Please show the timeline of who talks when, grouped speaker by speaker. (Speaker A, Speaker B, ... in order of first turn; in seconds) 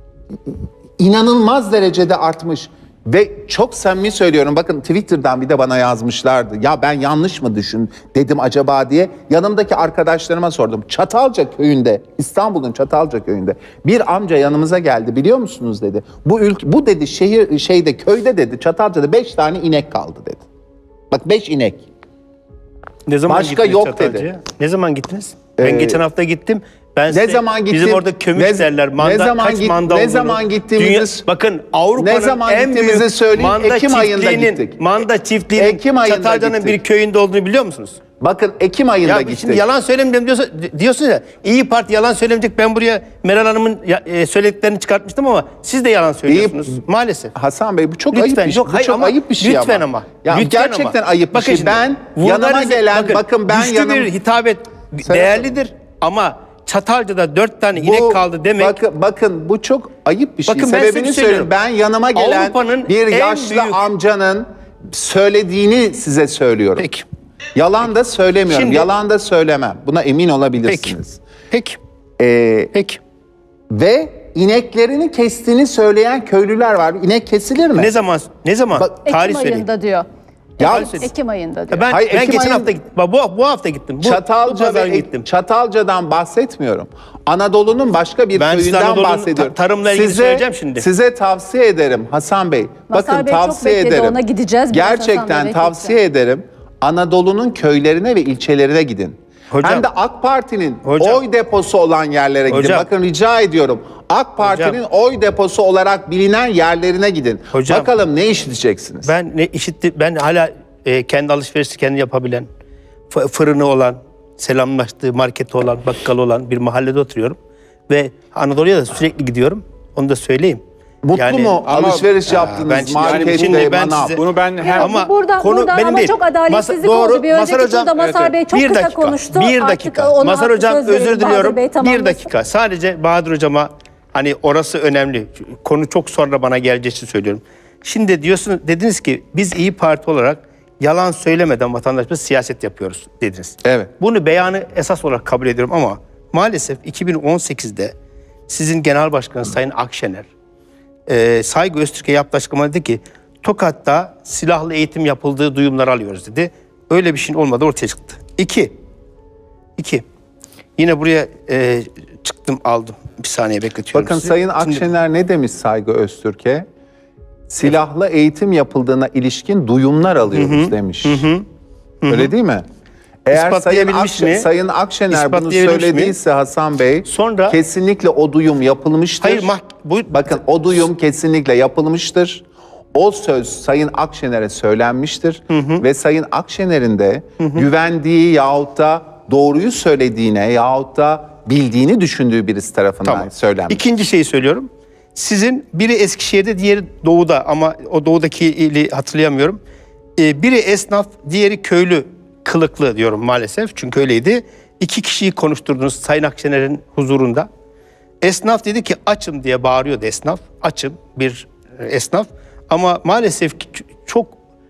Speaker A: 1.0-20.4, 21.1-21.9, 23.3-24.3, 25.6-26.0, 27.1-31.2, 32.0-34.8, 35.5-36.8, 38.2-39.6, 46.3-46.7, 47.3-54.1, 55.1-55.4, 57.8-66.9, 67.5-71.2, 72.2-72.7, 73.7-77.9, 80.6-81.1, 81.9-82.7, 84.0-94.2, 94.7-109.1, 121.0-124.2, 163.9-166.7, 167.5-171.3, 172.1-172.7, 173.3-179.5, 180.1-193.9
Speaker B: 23.1-38.0, 39.0-47.3, 48.1-58.8, 60.5-61.5, 62.1-63.8, 66.8-67.1, 68.5-68.9, 70.7-71.0, 71.5-71.8, 72.7-73.0, 77.8-79.7, 80.7-81.1, 81.7-85.3, 88.3-90.9, 99.5-99.9, 100.8-101.2, 102.5-102.9, 104.4-104.8, 107.5-107.9, 109.1-112.5, 113.1-117.4, 117.9-120.6, 121.2-121.6, 122.3-124.1, 124.9-127.9, 128.4-147.9, 148.5-150.3, 151.1-158.7, 159.8-160.1, 160.8-164.9, 170.3-171.5, 172.0-172.3, 173.3-174.5, 175.1-176.2, 177.1-177.6, 179.2-180.3, 185.5-185.8, 187.4-187.7, 193.1-199.6, 200.2-207.5, 208.2-214.3
Speaker C: 79.0-80.0, 80.6-81.9, 92.9-96.0, 124.6-132.3
Speaker D: 121.7-122.1, 123.0-125.0, 128.0-128.4